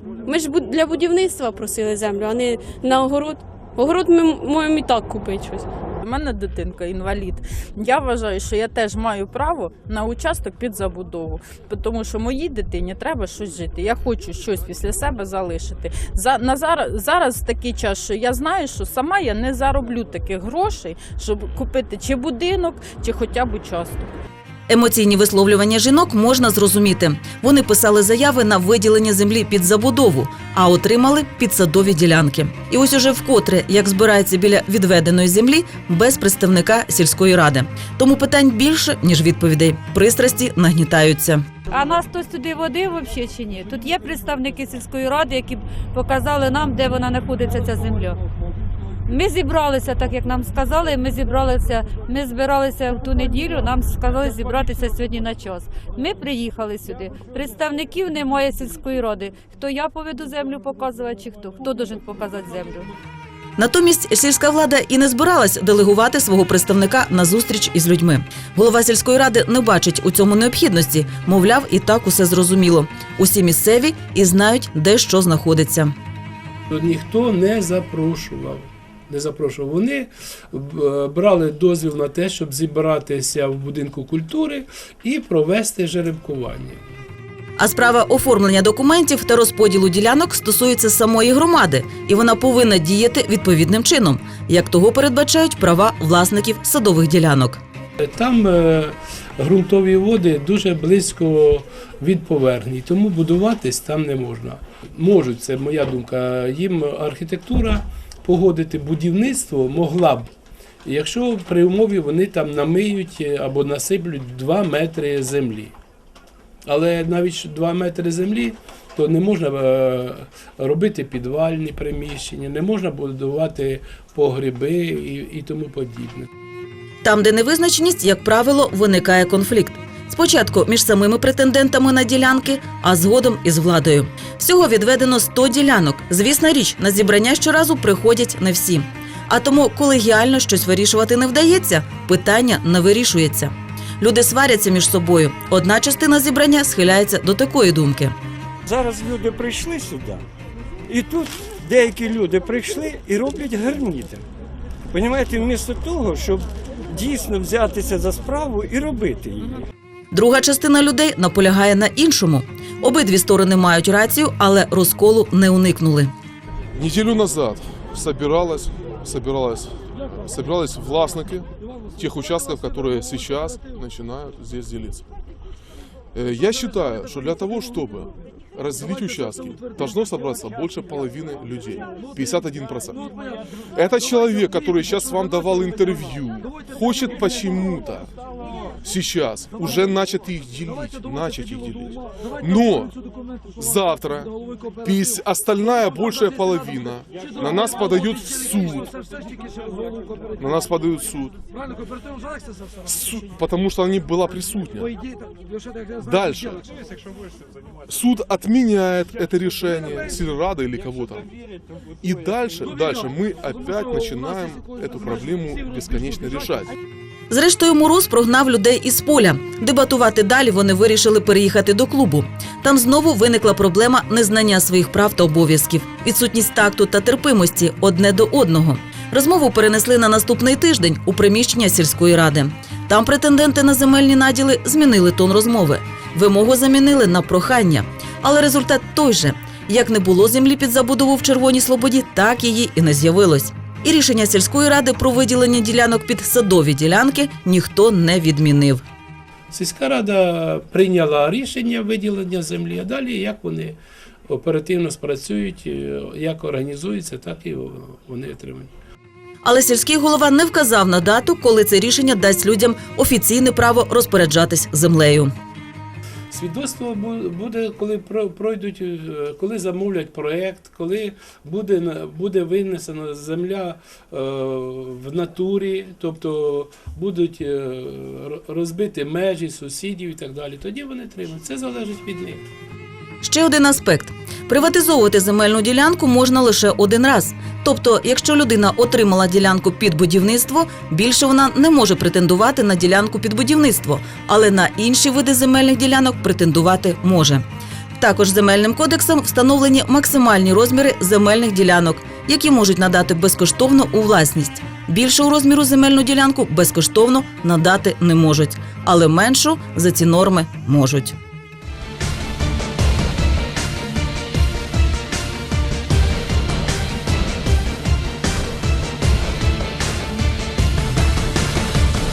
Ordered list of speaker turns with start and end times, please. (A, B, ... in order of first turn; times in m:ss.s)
0:00.2-0:05.7 A
0:06.0-0:24.1 B
0:24.7-0:41.4 C
0:41.7-0:48.2 D
0:49.1-1:02.9 D
1:03.6-1:15.9 C
1:16.7-1:26.8 E
1:27.6-1:37.6 C
1:38.0-1:50.3 E
1:50.8-1:55.7 E
1:56.6-2:06.3 E
2:07.0-2:28.1 C
2:28.7-2:30.2 F
2:30.9-2:34.2 F
2:34.9-2:39.6 F
2:40.1-2:46.1 C
2:46.8-2:55.0 G
2:56.1-3:03.0 G
3:03.7-3:08.1 G
3:08.8-3:12.9 G
3:13.6-3:18.9 G
3:20.4-3:21.4 G
3:22.8-3:24.9 G
3:26.0-3:26.6 G
3:27.9-3:31.3 G
3:32.0-3:36.7 G
3:37.3-4:08.8 C
4:09.5-4:13.8 E
4:14.3-4:18.7 E
4:19.4-4:25.3 C
4:26.3-4:42.4 E
4:43.2-5:11.2 C